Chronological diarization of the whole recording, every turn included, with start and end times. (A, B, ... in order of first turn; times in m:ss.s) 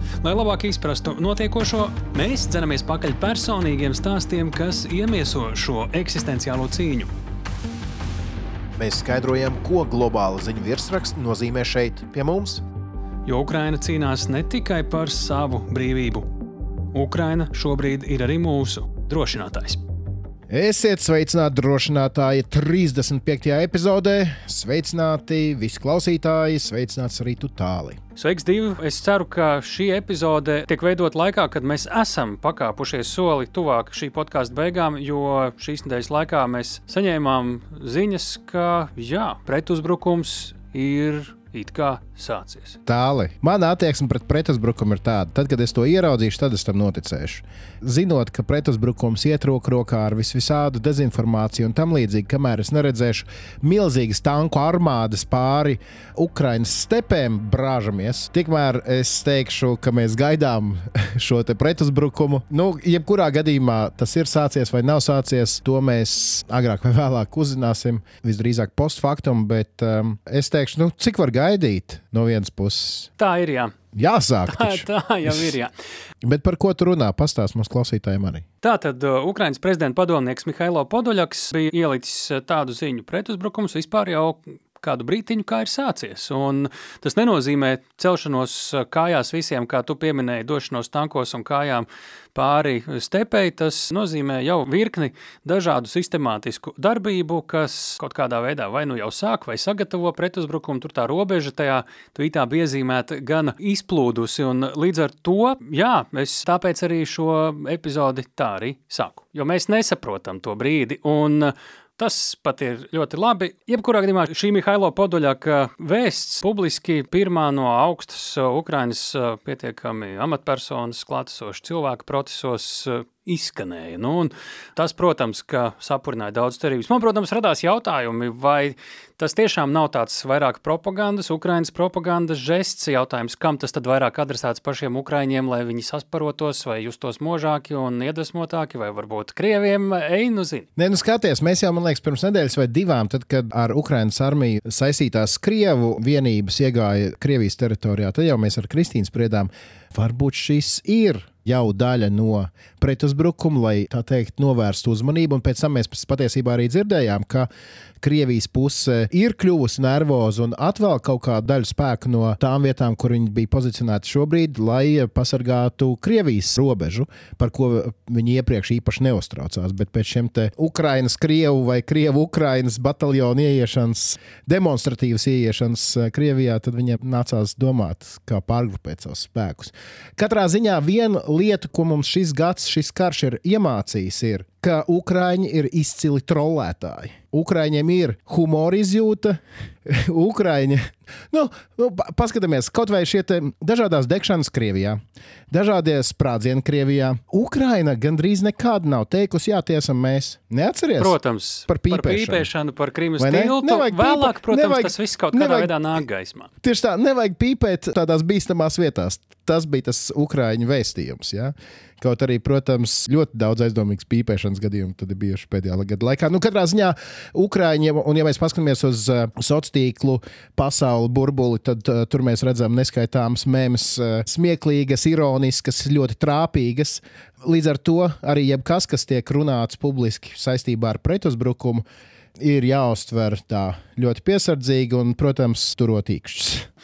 0:00.2-0:07.1 A
0:08.8-0:12.6 B
0:13.2-0:16.3 A
0:16.9-0:19.8 A
0:20.5-0:28.0 B
0:28.2-0:42.8 A
0:42.8-1:13.1 B
1:13.2-1:13.7 A
1:13.9-1:15.5 B
1:14.5-1:15.7 A
1:16.2-1:18.4 B
1:18.6-2:20.7 A
2:20.8-2:37.5 B
2:38.0-3:22.5 B
3:21.0-3:26.5 A
3:23.2-3:25.7 B
3:26.6-3:51.8 B
3:52.4-3:56.7 B